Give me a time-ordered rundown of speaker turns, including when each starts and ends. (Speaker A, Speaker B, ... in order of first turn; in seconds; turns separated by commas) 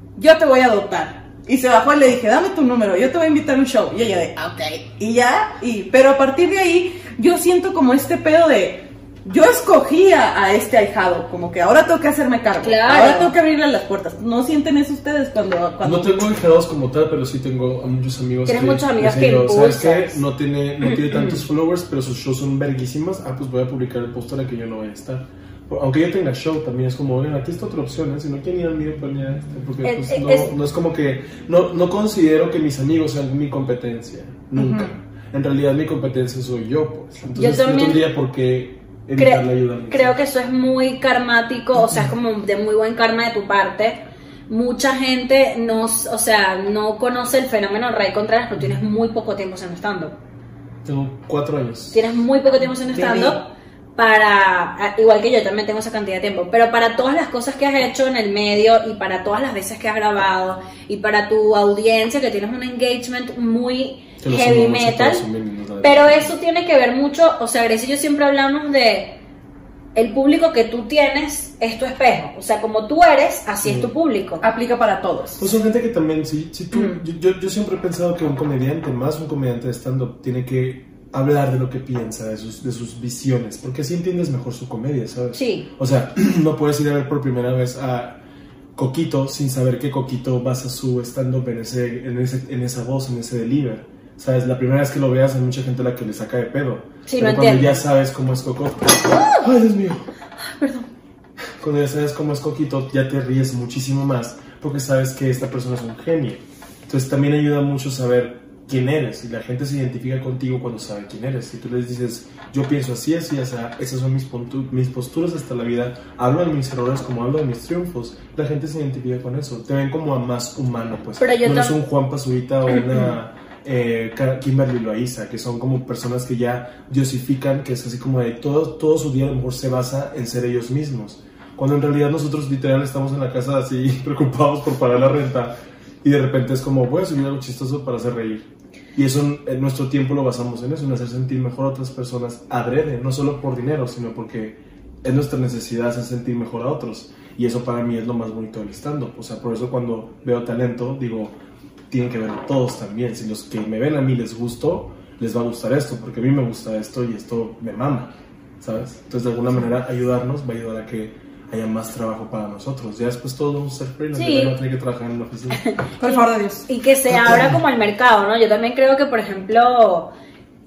Speaker A: 0.1-16.2, Speaker B: 12.6-13.3, Speaker C: 15.8-40.1, Speaker B: 18.5-20.2, Speaker B: 20.8-21.3, Speaker B: 29.8-30.5, Speaker A: 34.5-34.9, Speaker B: 37.3-38.0, Speaker B: 39.1-50.2, Speaker C: 50.8-52.0, Speaker B: 51.9-65.2, Speaker A: 52.9-53.4, Speaker C: 64.2-66.3, Speaker B: 65.8-69.2, Speaker B: 69.9-74.4, Speaker C: 73.6-73.9, Speaker A: 74.4-75.5, Speaker C: 75.4-88.2, Speaker B: 76.7-77.0, Speaker B: 85.3-85.7, Speaker C: 88.7-100.1, Speaker B: 97.0-97.8, Speaker B: 99.1-99.4, Speaker B: 100.4-100.9, Speaker C: 101.6-151.3, Speaker B: 121.2-121.8, Speaker C: 151.9-165.6, Speaker B: 164.1-164.5, Speaker B: 165.6-170.1, Speaker A: 166.0-166.7, Speaker C: 167.1-167.6